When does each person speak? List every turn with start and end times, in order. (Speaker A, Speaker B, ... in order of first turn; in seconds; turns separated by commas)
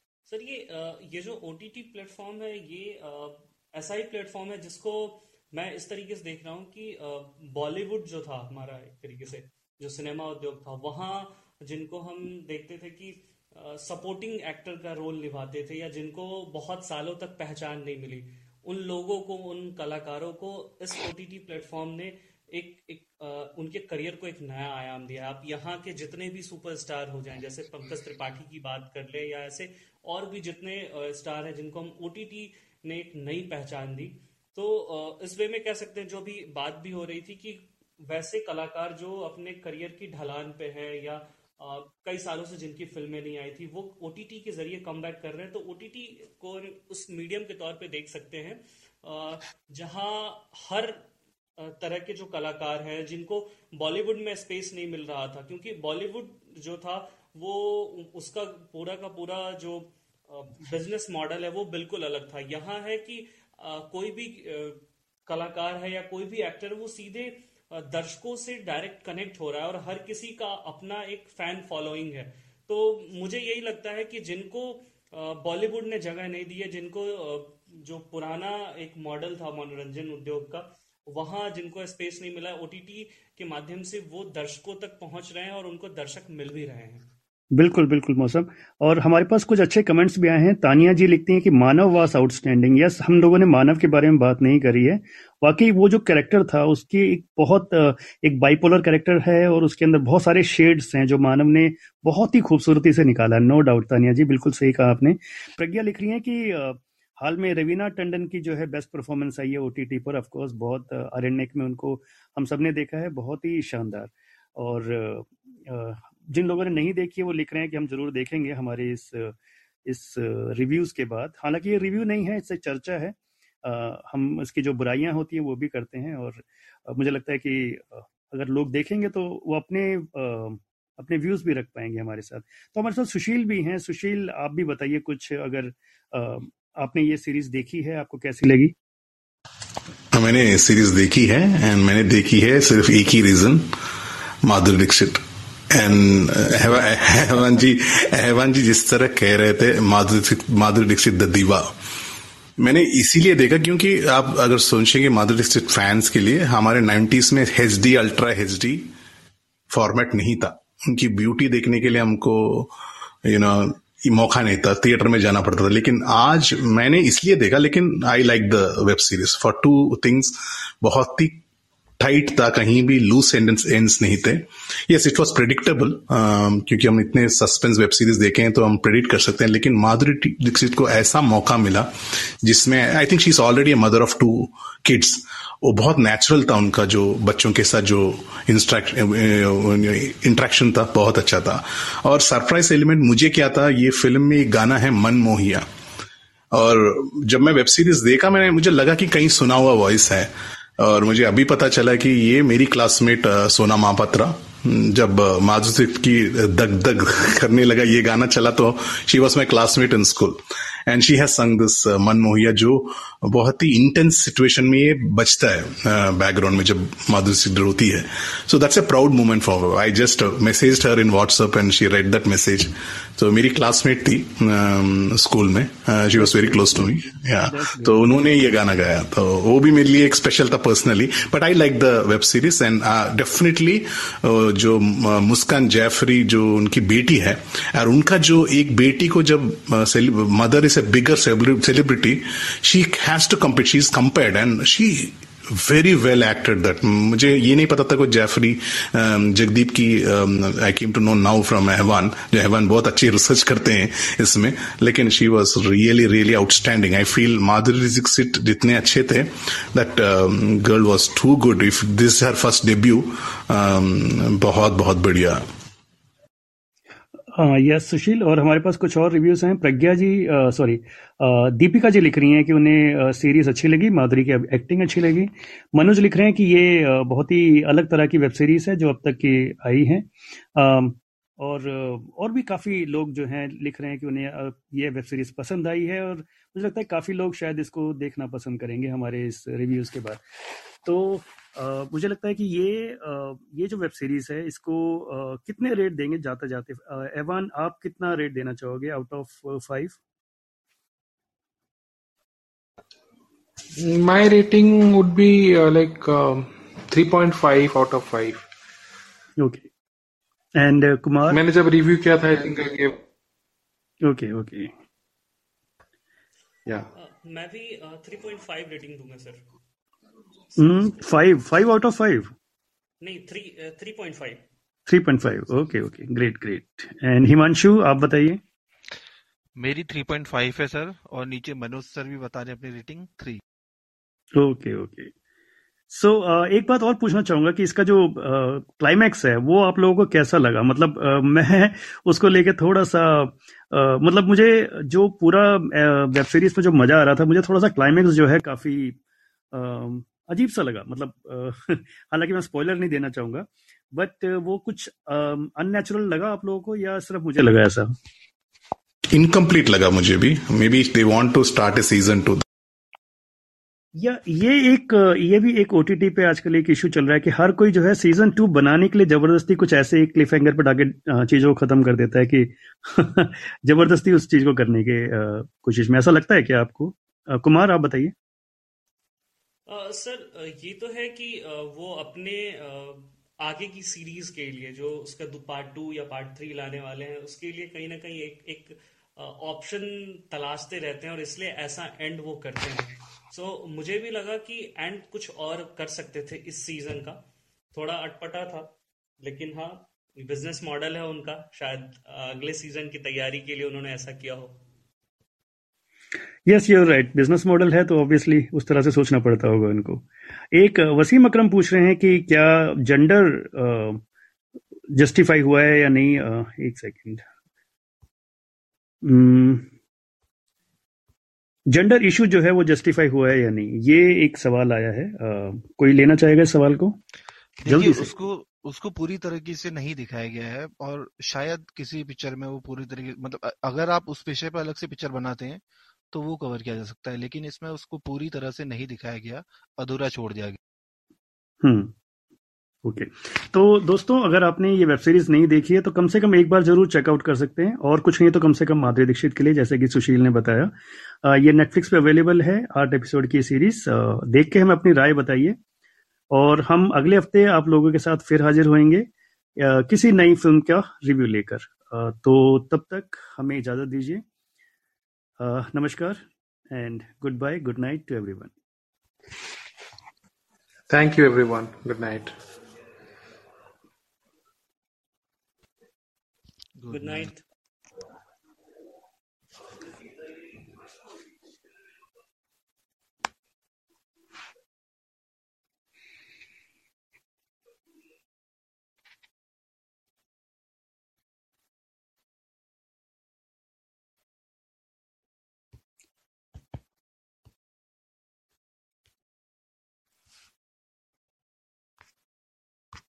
Speaker A: 0.3-51.0, Speaker A: 51.6-87.1, Speaker B: 87.5-119.3, Speaker B: 119.9-138.8, Speaker C: 140.1-143.8, Speaker C: 144.4-151.7, Speaker C: 152.6-158.9, Speaker C: 159.7-171.4, Speaker C: 172.0-195.7, Speaker C: 196.5-265.5, Speaker B: 226.2-228.2, Speaker B: 267.3-300.0, Speaker D: 303.8-308.5, Speaker B: 309.4-309.7, Speaker B: 310.6-311.4, Speaker D: 311.3-313.0, Speaker B: 314.0-314.7, Speaker A: 316.9-319.5, Speaker B: 320.6-322.3, Speaker A: 323.0-324.4, Speaker B: 324.9-328.4, Speaker E: 329.6-333.4, Speaker B: 334.4-335.1, Speaker B: 335.9-349.0, Speaker B: 349.5-357.9, Speaker C: 359.1-362.4, Speaker B: 364.0-378.1, Speaker A: 379.7-397.2, Speaker A: 397.7-404.6, Speaker B: 406.5-414.0, Speaker B: 414.9-417.2, Speaker B: 419.0-419.7, Speaker B: 421.7-427.0, Speaker E: 427.6-440.6, Speaker B: 427.7-428.1, Speaker B: 441.6-441.9, Speaker B: 442.9-450.7, Speaker B: 451.2-455.6, Speaker B: 456.3-464.2, Speaker B: 465.4-468.5, Speaker D: 470.9-472.3, Speaker E: 476.8-477.3, Speaker A: 476.9-477.4